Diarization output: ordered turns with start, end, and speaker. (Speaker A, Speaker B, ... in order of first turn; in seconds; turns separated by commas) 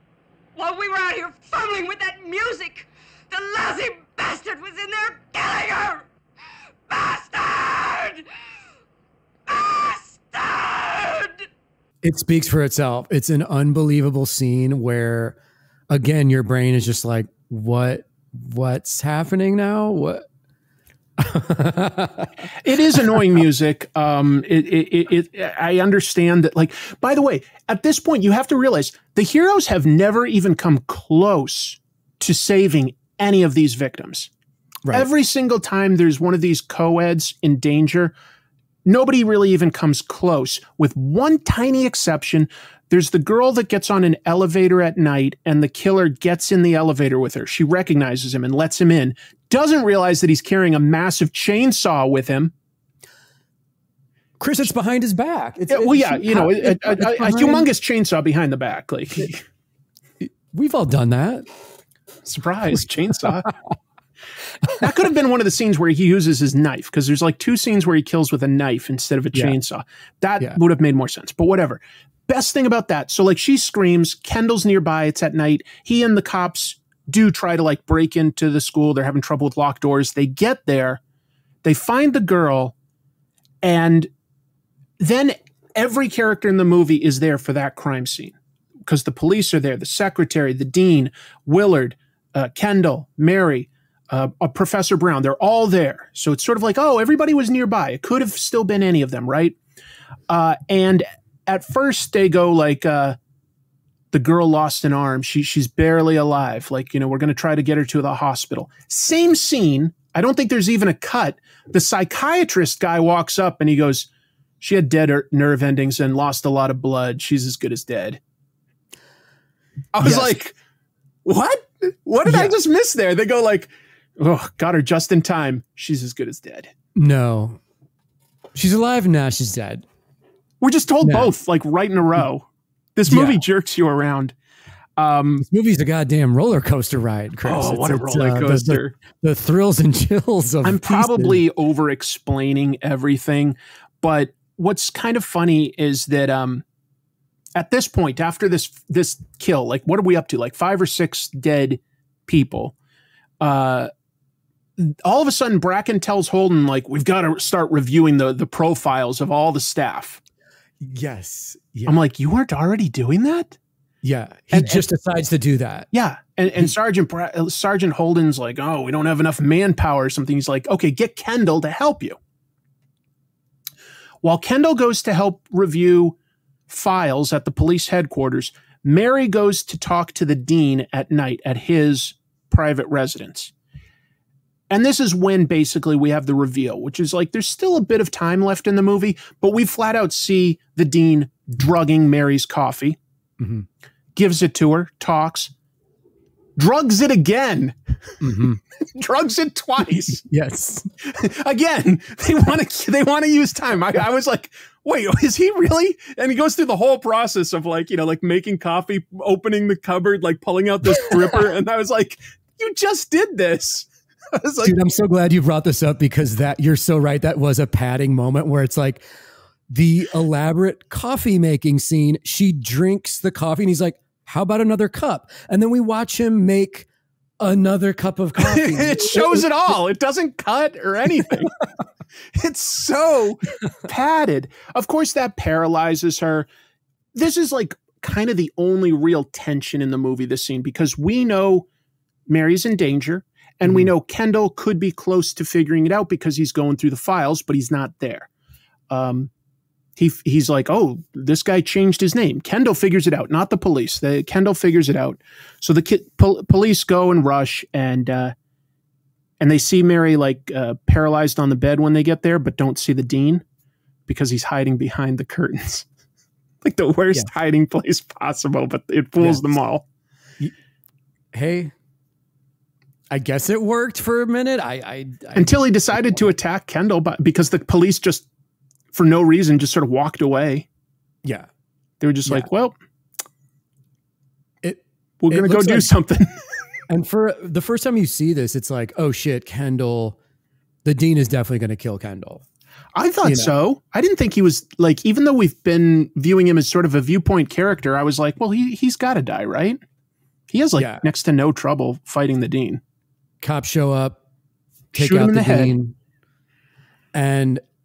Speaker A: 0.6-6.0, Speaker A: 6.9-8.2, Speaker A: 9.5-11.3, Speaker B: 12.0-15.4, Speaker B: 15.9-20.2, Speaker B: 21.2-22.3, Speaker C: 22.6-34.3, Speaker C: 34.9-38.1, Speaker C: 38.9-52.5, Speaker B: 54.4-57.7, Speaker C: 55.7-59.4, Speaker B: 60.2-61.5, Speaker C: 62.2-63.5, Speaker C: 64.8-81.0, Speaker C: 81.6-82.7, Speaker C: 83.6-84.1, Speaker C: 85.0-88.3, Speaker C: 88.9-99.5, Speaker C: 100.3-103.2, Speaker C: 104.1-114.1, Speaker C: 114.6-118.2, Speaker C: 119.9-120.5, Speaker B: 120.0-120.3, Speaker C: 121.2-126.7, Speaker B: 122.2-122.5, Speaker B: 126.9-127.6, Speaker B: 128.5-129.8, Speaker C: 130.6-134.3, Speaker B: 131.0-131.3, Speaker B: 133.1-133.4, Speaker C: 135.0-135.4, Speaker B: 135.4-141.4, Speaker C: 137.4-138.9, Speaker C: 140.6-146.6, Speaker C: 147.5-152.7, Speaker C: 153.4-153.9, Speaker C: 154.8-160.2, Speaker B: 160.8-162.0, Speaker C: 161.8-163.6, Speaker B: 164.0-165.9, Speaker C: 164.5-164.8, Speaker C: 165.9-172.2, Speaker C: 174.2-176.2, Speaker C: 176.7-183.5, Speaker C: 184.7-193.0, Speaker B: 193.4-193.7, Speaker C: 194.1-195.5, Speaker C: 196.6-197.7, Speaker B: 198.2-198.6, Speaker C: 198.9-200.2, Speaker B: 200.1-200.9, Speaker C: 201.0-214.8, Speaker B: 214.6-219.1, Speaker B: 219.7-226.9, Speaker B: 227.4-229.5, Speaker C: 228.4-231.6, Speaker C: 232.3-236.5, Speaker C: 237.1-241.7, Speaker C: 242.3-248.3, Speaker B: 243.6-243.9, Speaker C: 248.9-249.3, Speaker C: 250.0-258.3, Speaker C: 259.4-263.4, Speaker C: 264.1-265.9, Speaker C: 266.6-269.9, Speaker B: 269.2-269.4, Speaker B: 271.3-271.7, Speaker B: 273.1-276.3, Speaker C: 275.3-278.3, Speaker C: 278.9-280.7, Speaker C: 282.0-282.8, Speaker B: 284.6-285.9, Speaker C: 285.2-286.3, Speaker B: 286.9-290.2, Speaker B: 290.8-292.4, Speaker C: 292.9-299.8, Speaker B: 293.2-293.5, Speaker C: 300.5-302.8, Speaker B: 300.8-301.0, Speaker B: 303.4-304.2, Speaker C: 304.9-305.8, Speaker B: 304.9-305.9, Speaker B: 307.1-307.6